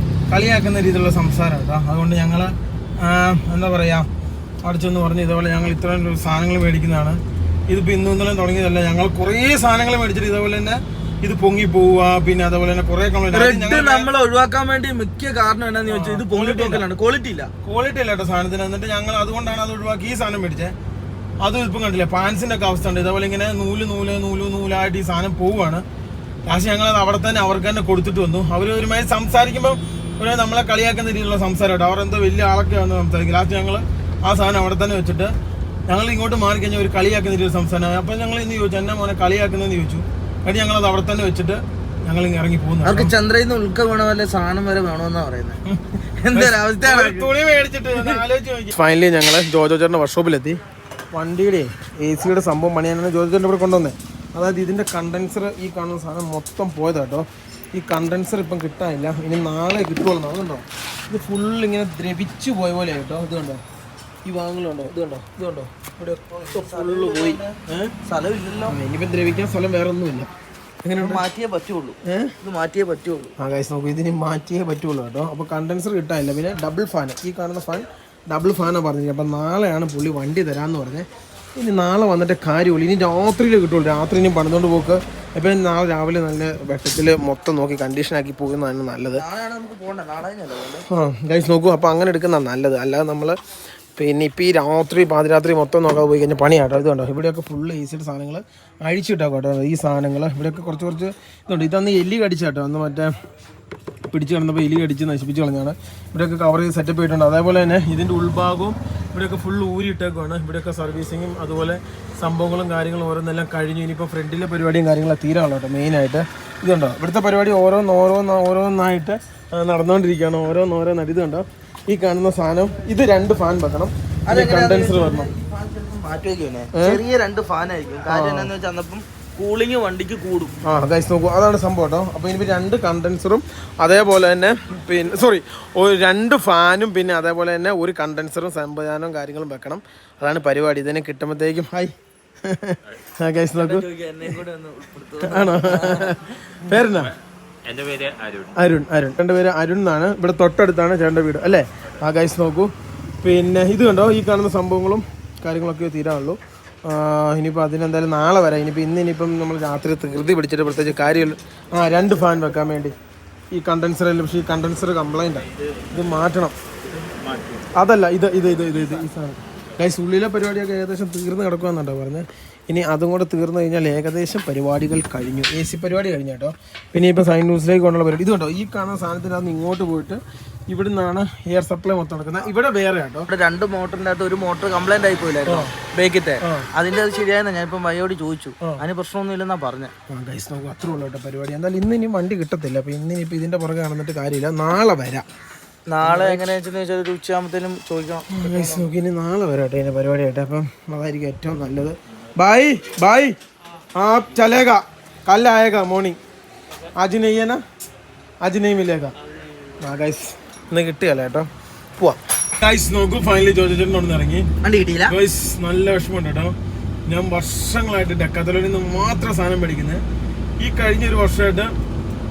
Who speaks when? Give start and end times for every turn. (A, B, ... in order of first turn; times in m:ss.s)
0:00.3-0:04.1 A
0:04.6-0:14.1 A
0:13.3-0:17.5 B
0:15.9-0:16.9 A
0:17.6-0:20.8 A
0:21.4-0:25.8 A
0:26.5-0:35.3 A
0:35.9-0:43.1 A
0:42.8-0:45.6 B
0:45.7-0:50.6 A
0:46.2-0:47.3 B
0:51.1-1:03.6 A
1:04.2-1:08.0 A
1:06.2-1:08.8 B
1:08.7-1:10.3 A
1:10.8-1:11.2 A
1:11.0-1:13.3 B
1:12.0-1:12.3 A
1:13.4-1:29.2 A
1:29.1-1:30.9 B
1:30.9-1:33.4 A
1:34.0-1:43.1 A
1:44.1-2:05.3 A
2:04.3-2:10.6 B
2:06.7-2:07.0 A
2:08.1-2:08.5 A
2:10.6-2:23.9 A
2:23.6-2:26.2 B
2:25.2-2:27.1 A
2:27.6-2:28.6 C
2:28.6-2:32.7 A
2:33.2-2:43.0 A
2:43.5-2:46.6 A
2:45.6-2:45.8 C
2:46.8-2:47.7 C
2:47.7-3:03.3 A
3:03.3-3:09.9 B
3:05.5-3:05.7 A
3:06.4-3:06.7 A
3:10.1-3:15.3 A
3:15.9-3:18.9 B
3:16.0-3:16.5 A
3:18.3-3:23.4 A
3:24.0-3:26.2 A
3:27.0-3:27.6 A
3:28.4-3:29.1 A
3:29.8-3:31.5 A
3:32.0-3:34.5 A
3:34.6-3:35.2 B
3:35.1-3:36.6 A
3:37.1-3:40.0 A
3:40.6-3:41.7 A